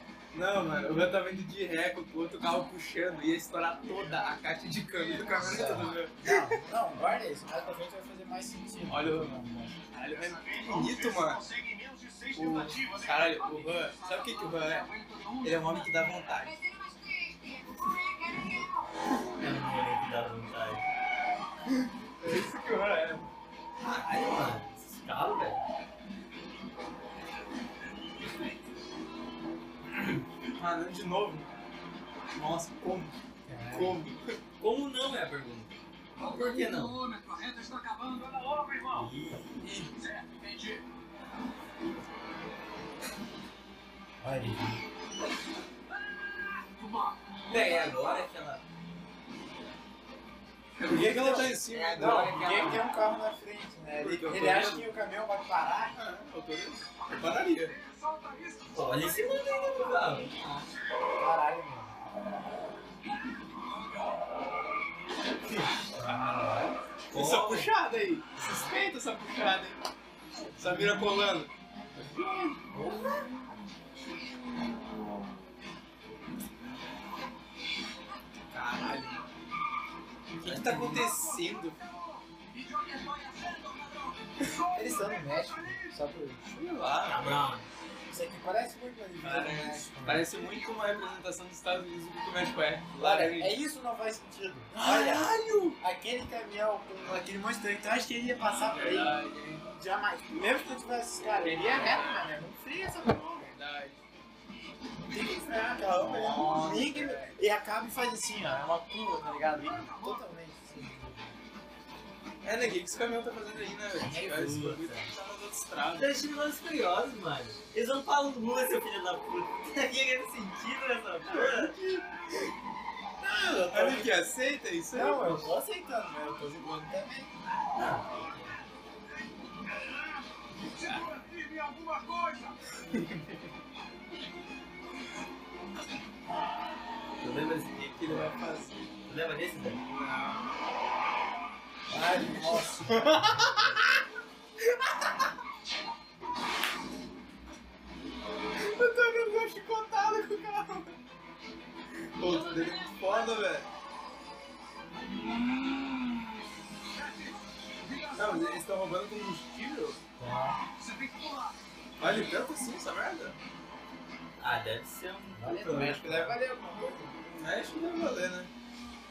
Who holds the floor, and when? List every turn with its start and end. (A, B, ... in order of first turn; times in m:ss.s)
0:00.3-0:06.4 A
0:05.1-0:06.0 B
0:05.2-0:09.8 C
0:08.9-0:09.3 A
0:09.9-0:11.4 A
0:10.1-0:16.0 B
0:12.3-0:14.9 A
0:15.4-0:16.6 A
0:16.3-0:19.2 D
0:19.4-0:20.8 E
0:21.8-0:23.3 A
0:23.8-0:25.6 E
0:30.5-0:31.5 A
0:32.3-0:33.1 A
0:33.4-0:34.0 C
0:33.7-0:34.4 A
0:34.6-0:37.0 E
0:36.2-0:39.1 B
0:38.9-0:39.6 E
0:39.6-0:40.0 A
0:39.9-0:40.8 B
0:44.2-0:44.8 C
0:46.6-0:48.3 B
0:47.5-0:48.6 E
0:50.8-0:52.9 A
0:50.8-0:56.0 C
0:51.6-0:52.9 E
0:54.0-0:54.9 A
0:55.9-0:57.8 A
0:57.6-1:00.1 B
0:58.7-1:00.6 E
1:01.2-1:01.9 C
1:03.7-1:04.2 B
1:05.9-1:06.8 C
1:07.1-1:07.8 E
1:07.1-1:09.8 A
1:08.4-1:08.7 E
1:10.6-1:11.5 A
1:10.6-1:11.0 C
1:12.7-1:13.2 E
1:18.5-1:19.2 A
1:20.3-1:21.8 A
1:20.4-1:21.1 E
1:20.8-1:26.0 B
1:24.7-1:26.4 C
1:26.4-1:27.4 A
1:27.0-1:27.7 E
1:28.1-1:30.2 C
1:29.2-1:33.6 A
1:33.0-1:43.5 C
1:34.7-1:35.8 A
1:38.6-1:39.6 A
1:41.4-1:42.2 A
1:43.4-1:44.0 A
1:45.0-1:51.3 C
1:46.0-1:47.4 A
1:46.3-1:46.8 E
1:49.6-1:50.2 B
1:52.4-1:56.2 A
1:54.0-1:55.1 E
1:54.1-1:54.5 C
1:55.9-2:01.8 E
2:01.2-2:02.4 A
2:03.2-2:04.2 C
2:03.7-2:05.5 A
2:04.9-2:07.3 C
2:07.7-2:08.6 E
2:10.7-2:12.5 B
2:12.8-2:13.5 A
2:17.2-2:18.5 E
2:18.0-2:18.8 A
2:19.0-2:20.3 E
2:21.9-2:23.7 C
2:22.4-2:23.2 A
2:28.6-2:30.9 A
2:32.2-2:33.7 A
2:36.9-2:38.6 B
2:38.1-2:40.0 A
2:40.2-2:40.6 C
2:40.6-2:41.5 B
2:42.0-2:43.4 A
2:44.4-2:46.3 E
2:45.4-2:47.1 C
2:45.8-2:46.3 A
2:47.2-2:48.5 A